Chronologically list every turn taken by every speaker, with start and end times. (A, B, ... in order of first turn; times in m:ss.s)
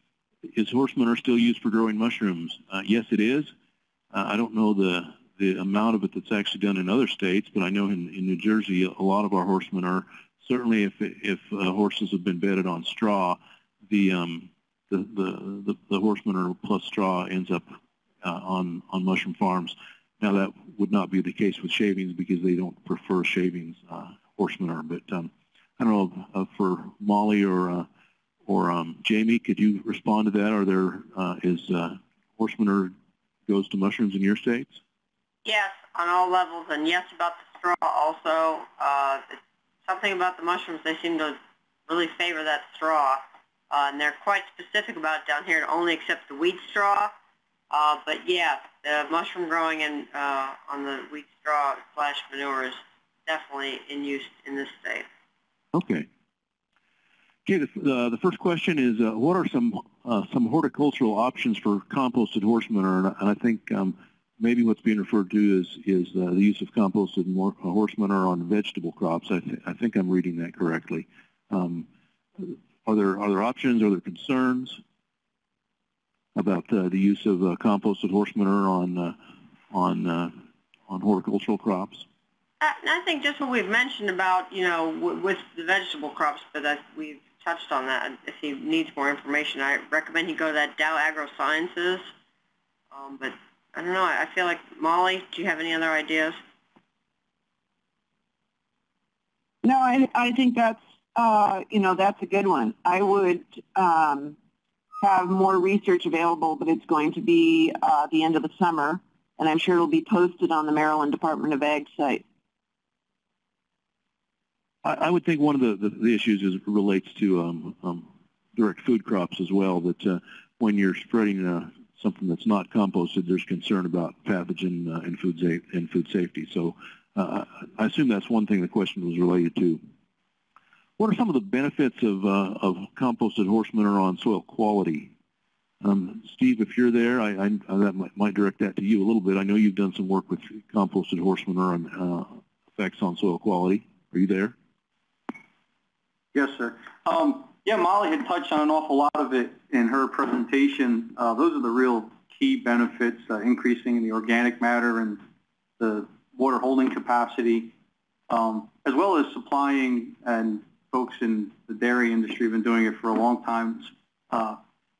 0:00.5-0:03.5 A
0:04.1-0:27.8 A
0:28.4-0:32.9 A
0:33.5-0:34.8 A
0:35.4-0:47.1 B
0:47.7-0:55.0 B
0:55.7-0:56.1 A
0:57.4-1:11.9 A
1:12.4-1:14.8 A
1:16.3-1:19.2 A
1:19.7-1:20.4 A
1:20.9-1:22.0 A
1:22.6-1:32.0 B
1:32.9-1:36.4 B
1:39.6-1:44.4 C
1:45.0-1:52.2 C
1:54.8-2:09.8 A
2:11.0-2:15.1 A
2:15.8-2:24.5 A
2:26.3-2:35.2 D
2:35.8-2:37.7 D
2:38.3-2:44.6 D